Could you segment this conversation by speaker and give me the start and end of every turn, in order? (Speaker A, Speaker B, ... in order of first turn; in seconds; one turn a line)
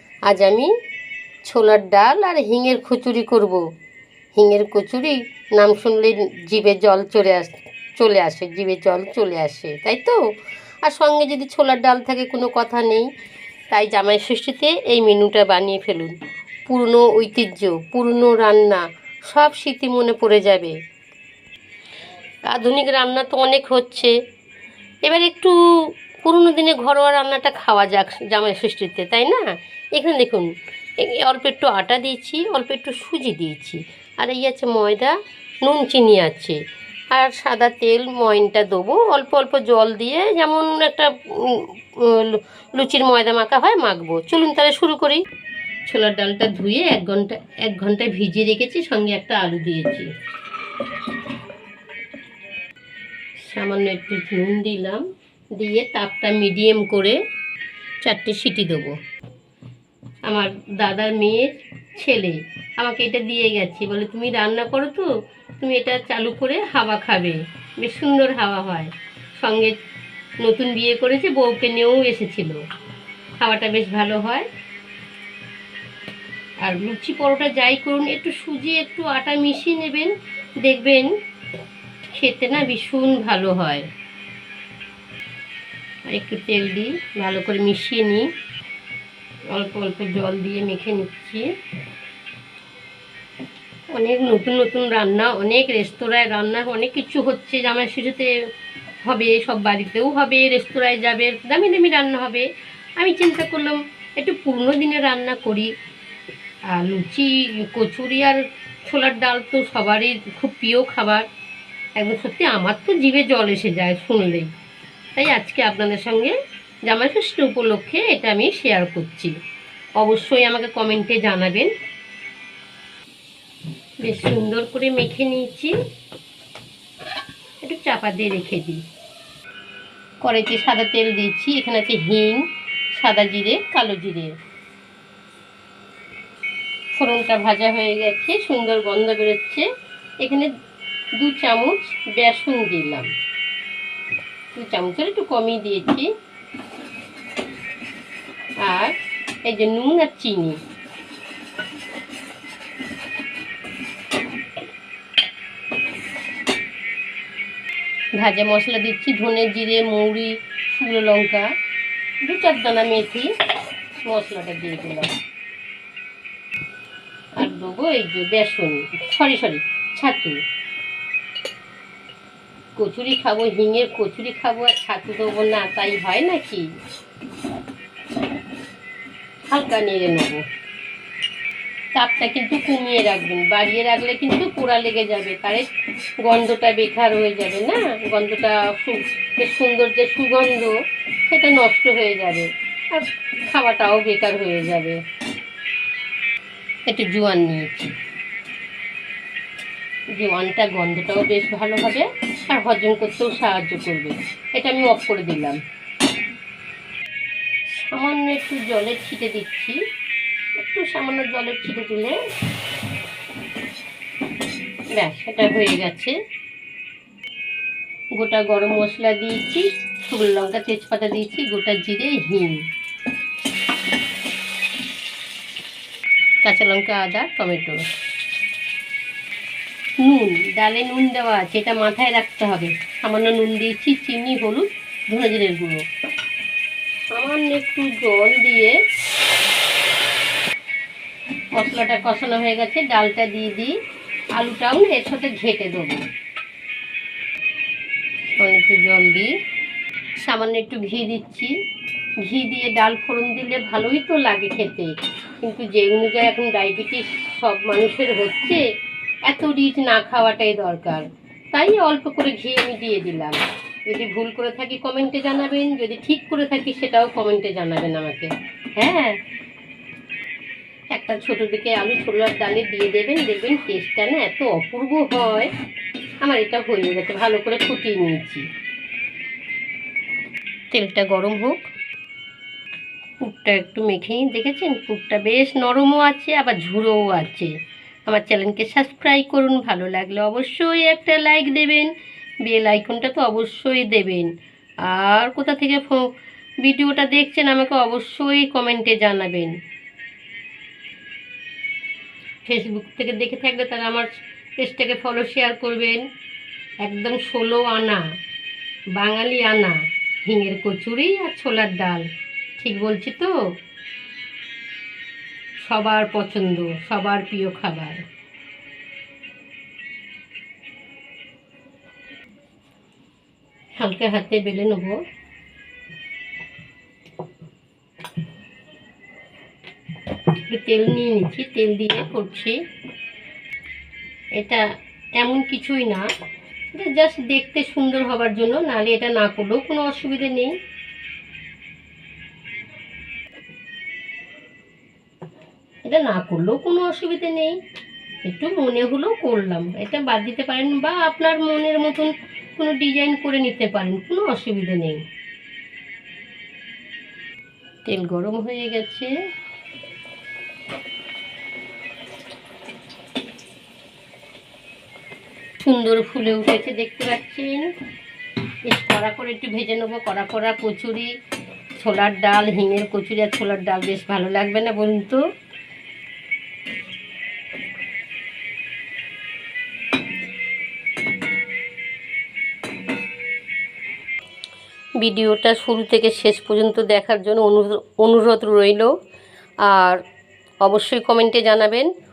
Speaker A: 0.3-0.7
Speaker A: 1.4-3.6
Speaker A: 4.3-10.2
Speaker A: 10.8-13.1
Speaker A: 13.7-16.1
Speaker A: 16.7-20.7
Speaker A: 22.4-24.1
Speaker A: 25.0-25.6
Speaker A: 26.2-30.5
Speaker A: 31.0-36.6
Speaker A: 37.1-45.2
Speaker A: 45.9-50.1
Speaker A: 53.5-55.0
Speaker A: 55.6-57.2
Speaker A: 58.0-58.9
Speaker A: 60.3-65.1
Speaker A: 65.6-69.7
Speaker A: 70.4-72.6
Speaker A: 73.4-74.5
Speaker A: 76.6-81.1
Speaker A: 82.1-83.8
Speaker A: 86.1-88.3
Speaker A: 89.5-91.5
Speaker A: 93.9-98.3
Speaker A: 99.0-102.5
Speaker A: 103.0-105.7
Speaker A: 106.7-111.2
Speaker A: 112.0-114.5
Speaker A: 115.2-116.3
Speaker A: 116.9-119.3
Speaker A: 120.0-121.7
Speaker A: 124.0-125.7
Speaker A: 127.6-128.8
Speaker A: 130.2-134.3
Speaker A: 136.9-139.7
Speaker A: 140.2-140.5
Speaker A: 141.2-143.1
Speaker A: 144.5-146.1
Speaker A: 148.6-150.6
Speaker A: 158.2-161.5
Speaker A: 162.2-163.3
Speaker A: 164.0-165.1
Speaker A: 167.4-170.4
Speaker A: 172.8-176.6
Speaker A: 179.5-180.4
Speaker A: 181.9-185.7
Speaker A: 186.2-190.7
Speaker A: 191.3-195.0
Speaker A: 196.9-197.9
Speaker A: 200.2-205.6
Speaker A: 207.8-209.8
Speaker A: 210.6-212.2
Speaker A: 215.0-216.1
Speaker A: 218.2-222.6
Speaker A: 226.4-227.8
Speaker A: 230.0-235.8
Speaker A: 237.1-238.7
Speaker A: 241.6-243.7
Speaker A: 244.3-246.0
Speaker A: 248.4-249.3
Speaker A: 250.2-251.5
Speaker A: 252.2-258.6
Speaker A: 259.2-263.4
Speaker A: 263.9-269.2
Speaker A: 270.9-275.5
Speaker A: 276.2-278.4
Speaker A: 280.7-281.7
Speaker A: 283.2-287.5
Speaker A: 288.1-291.9
Speaker A: 292.4-294.3
Speaker A: 294.9-296.1
Speaker A: 296.6-299.5
Speaker A: 302.4-304.1
Speaker A: 304.6-306.0
Speaker A: 306.8-308.0
Speaker A: 308.9-309.7
Speaker A: 310.2-312.0
Speaker A: 312.6-313.3
Speaker A: 315.6-318.0
Speaker A: 323.8-325.0
Speaker A: 330.5-332.6
Speaker A: 334.4-334.6
Speaker A: 335.2-336.0
Speaker A: 336.7-340.5
Speaker A: 345.9-347.6
Speaker A: 348.2-355.0
Speaker A: 357.9-359.1
Speaker A: 365.6-367.7
Speaker A: 368.6-371.1
Speaker A: 371.8-375.2
Speaker A: 385.0-388.9
Speaker A: 389.6-390.0
Speaker A: 390.6-391.9